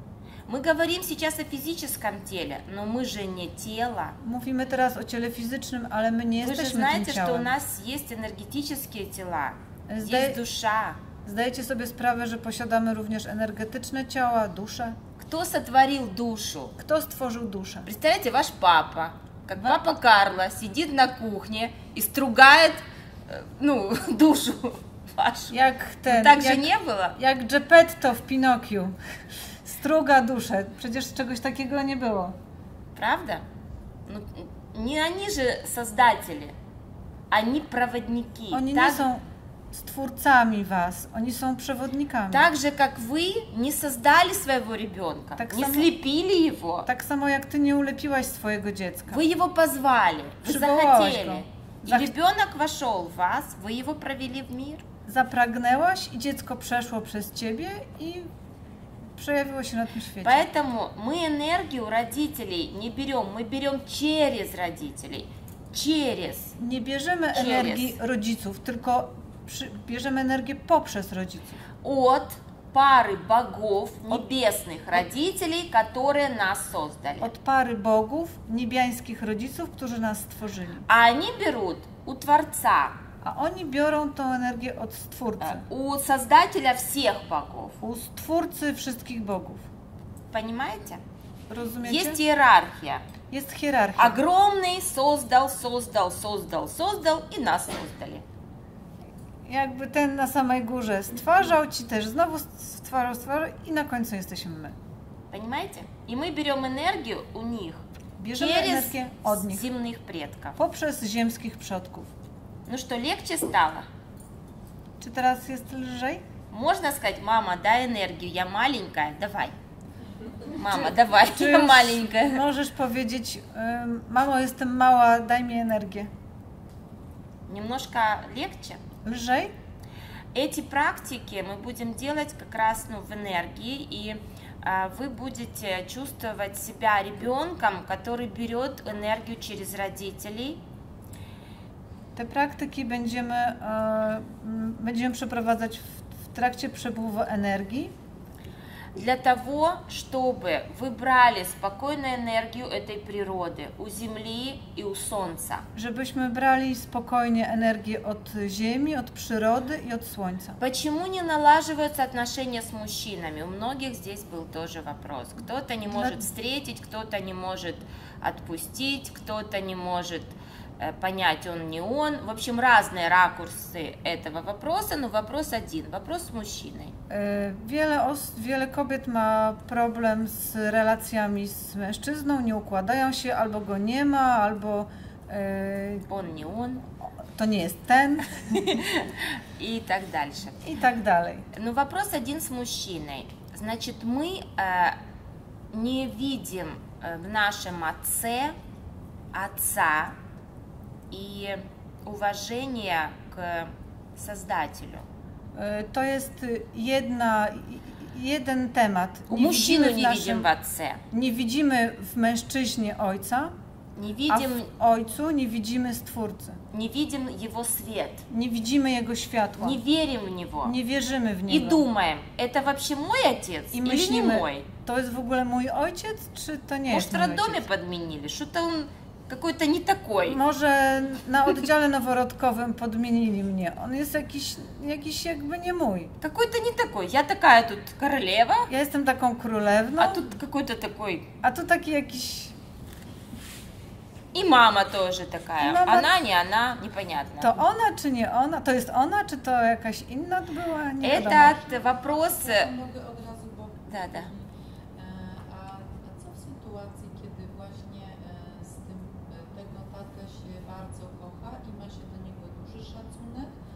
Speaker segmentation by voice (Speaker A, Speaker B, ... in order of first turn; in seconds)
Speaker A: 0.5-4.2, 6.4-11.0, 15.2-16.8, 17.8-27.2, 32.9-33.4, 34.1-36.5, 37.3-39.1, 42.3-46.9, 49.1-54.8, 60.2-66.5, 67.3-68.0, 71.8-77.3, 80.9-83.0, 85.4-87.8, 90.3-91.0, 91.8-93.0, 94.0-98.2, 105.3-110.6, 112.7-113.9, 116.5-119.5, 120.5-122.4, 127.5-128.8, 130.3-140.6, 148.9-155.7, 160.6-176.9, 186.1-186.8, 188.5-190.6, 191.5-195.0, 195.7-198.6, 199.3-200.2, 201.1-205.1, 209.3-211.0, 213.9-214.7, 216.7-218.2, 219.6-220.7, 221.5-224.7, 226.9-230.4, 236.2-238.7, 240.0-241.3, 244.3-247.5, 251.0-252.7, 253.9-254.3
Speaker B: 4.2-7.5, 9.9-10.4, 11.2-15.0, 16.8-17.9, 19.6-19.8, 25.5-32.4, 38.5-42.5, 45.4-45.9, 46.9-49.2, 50.4-52.1, 55.1-58.3, 59.1-60.5, 66.5-71.6, 77.2-80.9, 83.2-85.6, 87.8-89.7, 91.5-92.2, 93.3-94.2, 99.4-104.8, 108.2-109.7, 110.5-112.1, 115.0-116.2, 120.6-126.1, 129.0-129.5, 142.1-147.9, 155.7-160.6, 165.9-166.2, 177.1-186.1, 187.3-188.8, 190.6-191.5, 205.5-210.5, 211.1-213.6, 214.3-216.6, 218.3-219.8, 220.6-221.8, 223.7-227.7, 230.2-236.1, 238.7-240.3, 241.4-242.6, 245.6-246.1, 247.4-251.6
Speaker C: 251.1-263.5